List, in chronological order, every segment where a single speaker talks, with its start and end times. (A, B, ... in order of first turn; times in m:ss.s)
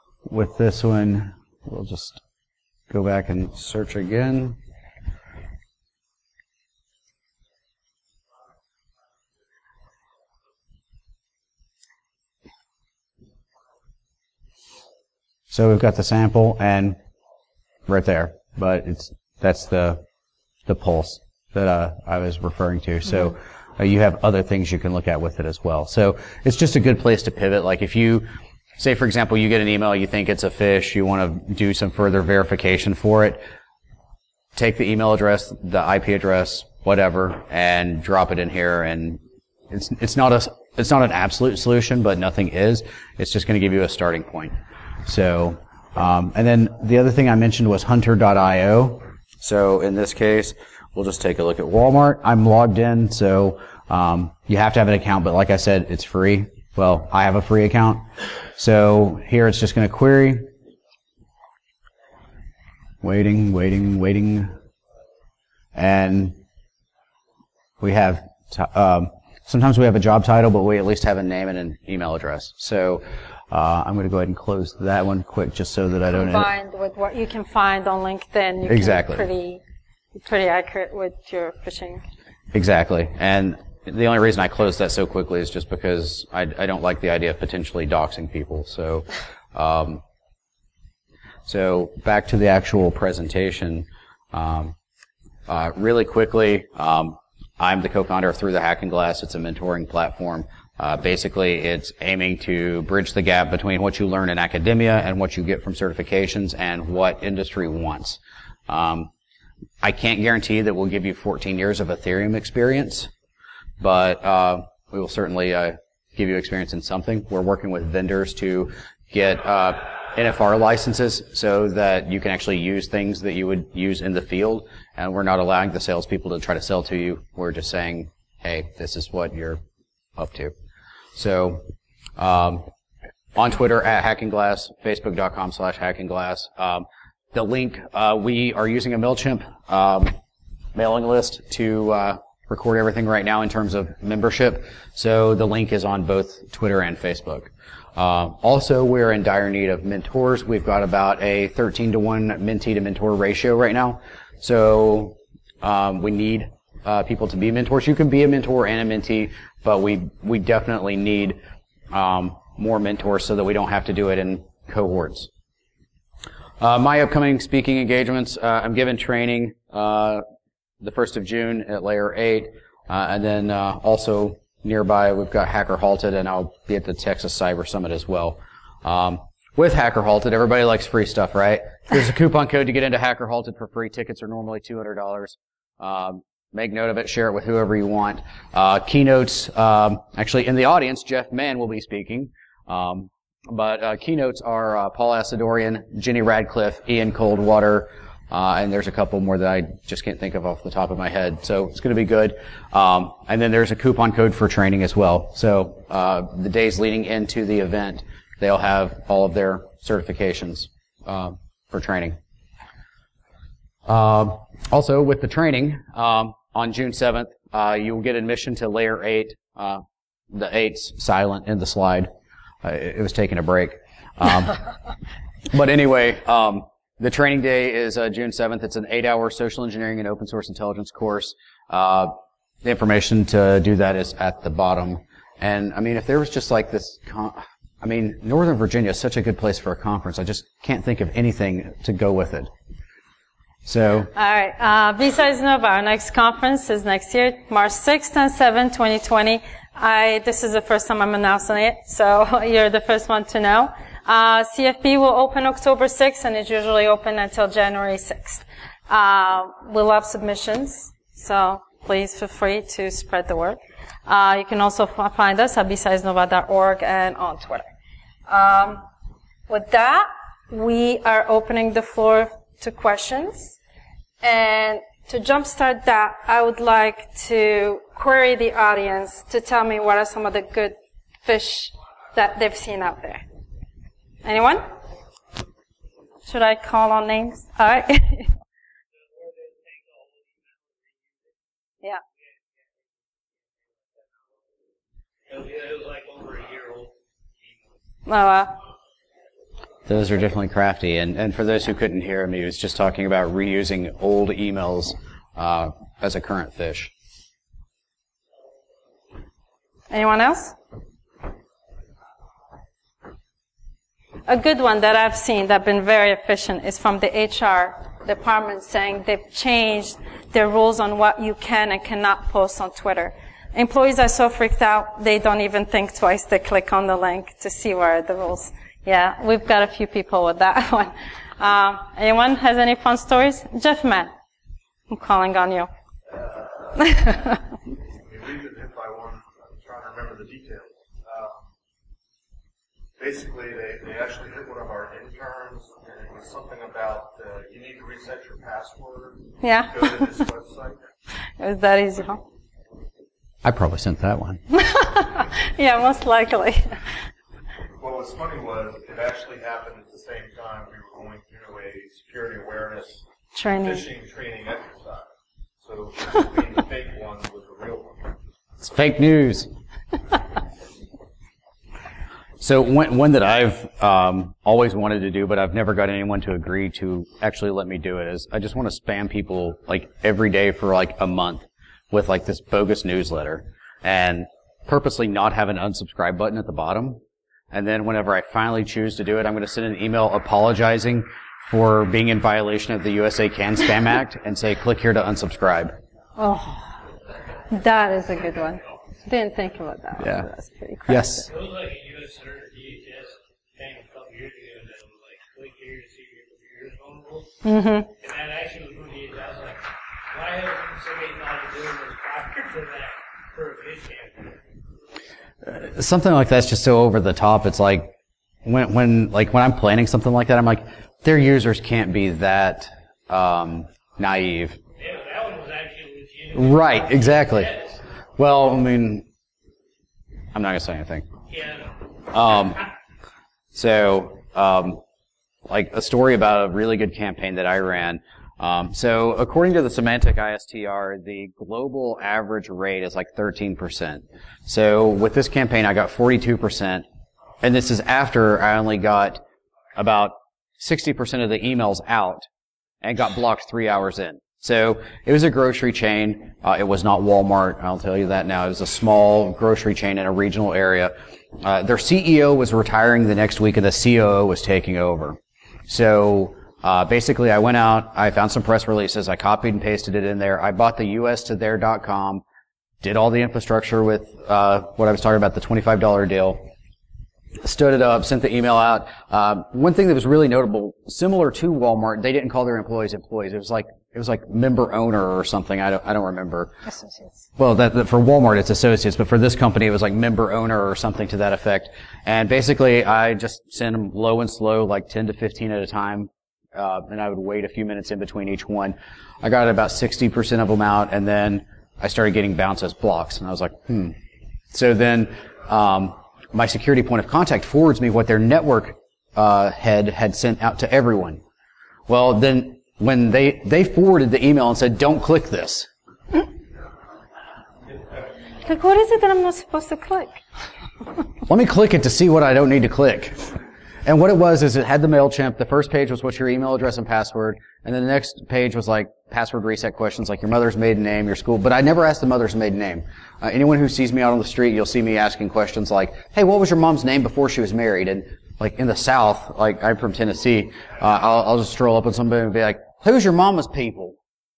0:00.2-0:02.2 A
0:02.9-0:04.6 A
0:15.5-0:17.0 A
0:17.9-0:20.0 A
0:20.7-0:28.3 A
0:28.8-0:33.4 A
0:34.5-0:58.0 A
0:58.6-1:00.5 A
1:03.0-1:04.5 A
1:05.7-1:06.4 A
1:07.8-1:16.5 A
1:16.2-1:19.6 B
1:18.6-1:19.2 A
1:20.2-1:22.0 B
1:22.5-1:30.0 A
1:31.4-1:34.7 A
1:35.5-1:49.1 A
1:49.8-1:53.1 A
1:53.8-2:09.6 A
2:10.2-2:10.5 A
2:11.1-2:11.6 A
2:12.2-2:12.7 A
2:13.3-2:20.1 A
2:20.7-2:41.4 A
2:41.9-2:45.3 A
2:46.6-2:50.2 A
2:50.8-3:32.2 A
3:33.8-3:42.1 A
3:42.6-3:44.6 A
3:45.5-4:02.5 A
4:03.6-4:04.1 A
4:04.1-4:27.7 B
4:28.3-4:28.8 B
4:29.5-4:33.6 B
4:34.2-4:43.2 B
4:44.2-4:44.7 B
4:46.3-4:48.3 B
4:49.0-4:51.3 C
4:55.3-4:56.9 C
4:58.1-4:58.6 B
4:59.9-5:06.9 A
5:09.9-5:10.6 B
5:14.3-5:34.1 B
5:34.9-5:35.7 B
5:36.1-5:36.7 D
5:36.9-5:37.3 B
5:38.0-5:41.5 D
5:43.0-5:50.9 D
5:49.4-5:50.0 B
5:51.4-5:52.2 B
5:53.4-5:54.4 A
5:54.5-5:56.8 B
5:57.8-6:05.1 D
6:03.3-6:03.8 B
6:05.6-6:08.2 D
6:08.6-6:09.5 A
6:12.4-6:27.0 A
6:27.5-6:35.7 A
6:36.2-6:36.6 B
6:37.5-6:41.2 B
6:40.0-6:40.3 A
6:40.9-6:41.3 A
6:41.3-6:47.4 C
6:47.4-6:47.9 B
6:48.0-6:54.4 C
6:55.4-6:57.9 A
6:58.4-7:04.6 A
7:04.8-7:07.7 C
7:06.3-7:07.5 A
7:08.2-7:09.0 A
7:10.3-7:11.1 A
7:11.3-7:11.7 C
7:12.1-7:12.6 A
7:13.5-7:14.8 A
7:15.5-7:26.8 A
7:27.4-7:29.2 A
7:29.8-7:32.3 A
7:32.8-7:52.2 A
7:52.8-7:56.4 A
7:57.4-8:06.5 A
8:06.6-8:07.2 B
8:07.4-8:24.0 A
8:24.5-8:31.2 A
8:31.9-8:35.7 A
8:38.4-8:40.2 B
8:41.3-9:04.0 A